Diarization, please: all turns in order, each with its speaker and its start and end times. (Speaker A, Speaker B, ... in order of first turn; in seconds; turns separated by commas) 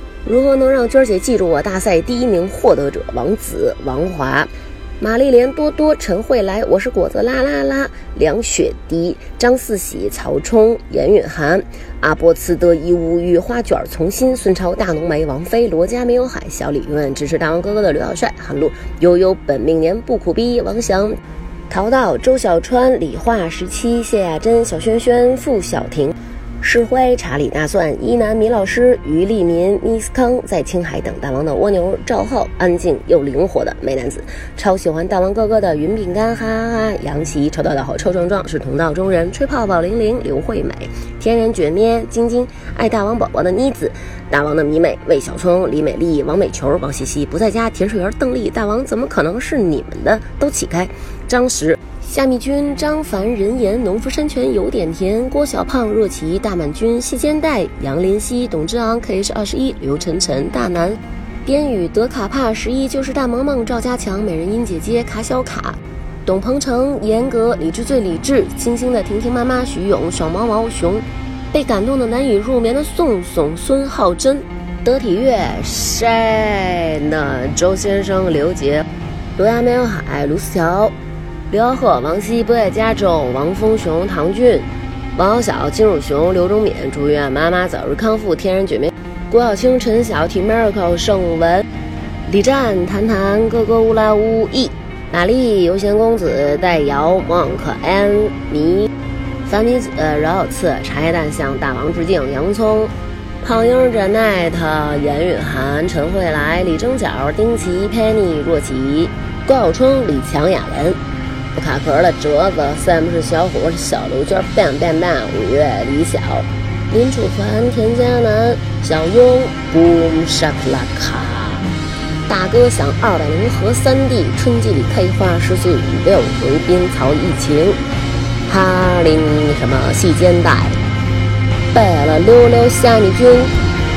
Speaker A: 0.2-21.2, Speaker A: 21.7-78.8, Speaker A: 79.4-80.9, Speaker A: 81.5-91.7, Speaker A: 92.3-98.9, Speaker A: 99.4-111.0, Speaker A: 111.5-121.7, Speaker A: 122.3-127.8, Speaker A: 128.5-130.8, Speaker A: 131.7-133.5